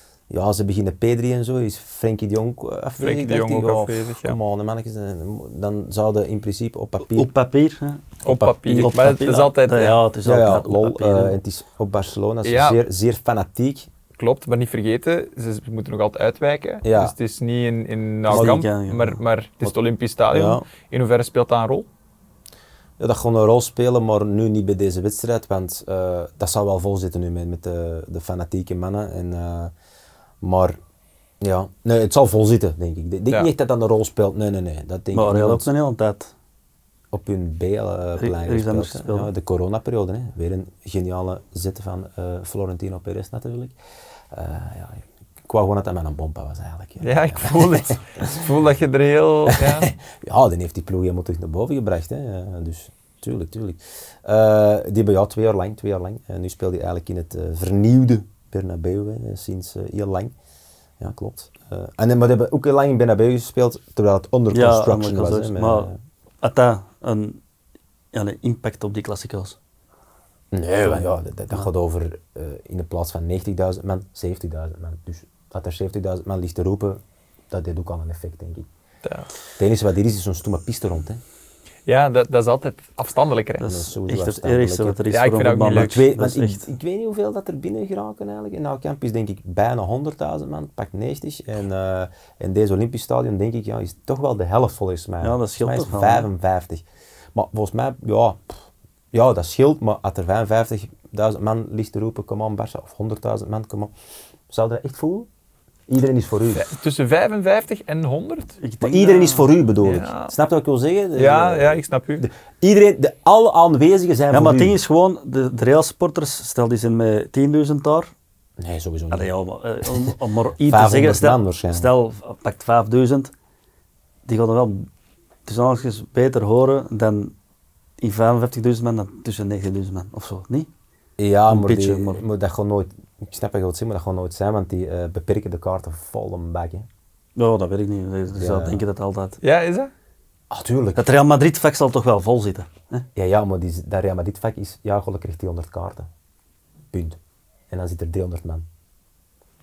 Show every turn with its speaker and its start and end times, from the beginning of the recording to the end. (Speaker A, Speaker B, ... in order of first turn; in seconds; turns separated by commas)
Speaker A: 0.3-7.3, Speaker B: 3.0-4.4, Speaker C: 7.0-8.1, Speaker B: 8.2-10.0, Speaker A: 8.3-9.0, Speaker C: 8.7-11.4, Speaker A: 10.2-13.9, Speaker B: 12.4-12.8, Speaker B: 14.2-21.9, Speaker A: 16.8-17.1, Speaker C: 18.3-19.2, Speaker A: 18.3-18.6, Speaker A: 20.3-20.6, Speaker A: 23.0-29.7, Speaker A: 30.4-30.8, Speaker A: 31.4-35.7, Speaker C: 35.1-36.3, Speaker A: 37.1-43.7, Speaker C: 38.2-39.3, Speaker A: 44.3-48.4, Speaker B: 47.0-49.9, Speaker A: 49.5-60.3, Speaker A: 61.0-65.9, Speaker C: 64.5-65.9, Speaker C: 66.4-67.4, Speaker C: 68.1-69.6, Speaker A: 70.5-77.0, Speaker C: 70.8-71.7, Speaker A: 77.5-78.7, Speaker A: 79.6-81.2, Speaker B: 81.9-83.6, Speaker C: 83.6-86.6, Speaker A: 83.6-85.0, Speaker B: 85.1-86.1, Speaker A: 85.7-98.4, Speaker C: 95.2-96.3, Speaker A: 99.1-103.9, Speaker A: 104.5-105.3, Speaker A: 105.9-106.7, Speaker B: 106.5-108.6, Speaker C: 108.6-109.5, Speaker A: 108.8-114.8, Speaker B: 109.8-110.3, Speaker B: 111.2-112.3, Speaker C: 114.3-118.1, Speaker A: 118.6-119.3, Speaker C: 119.1-123.3, Speaker A: 120.6-121.9, Speaker C: 124.3-124.9, Speaker C: 125.5-127.3, Speaker C: 128.0-130.7, Speaker A: 131.2-136.9, Speaker C: 131.5-132.2, Speaker C: 137.4-139.4, Speaker A: 138.4-138.8, Speaker B: 139.4-139.9, Speaker A: 140.5-141.1, Speaker C: 140.9-143.1, Speaker A: 143.2-146.1, Speaker A: 146.9-147.2, Speaker A: 147.7-148.6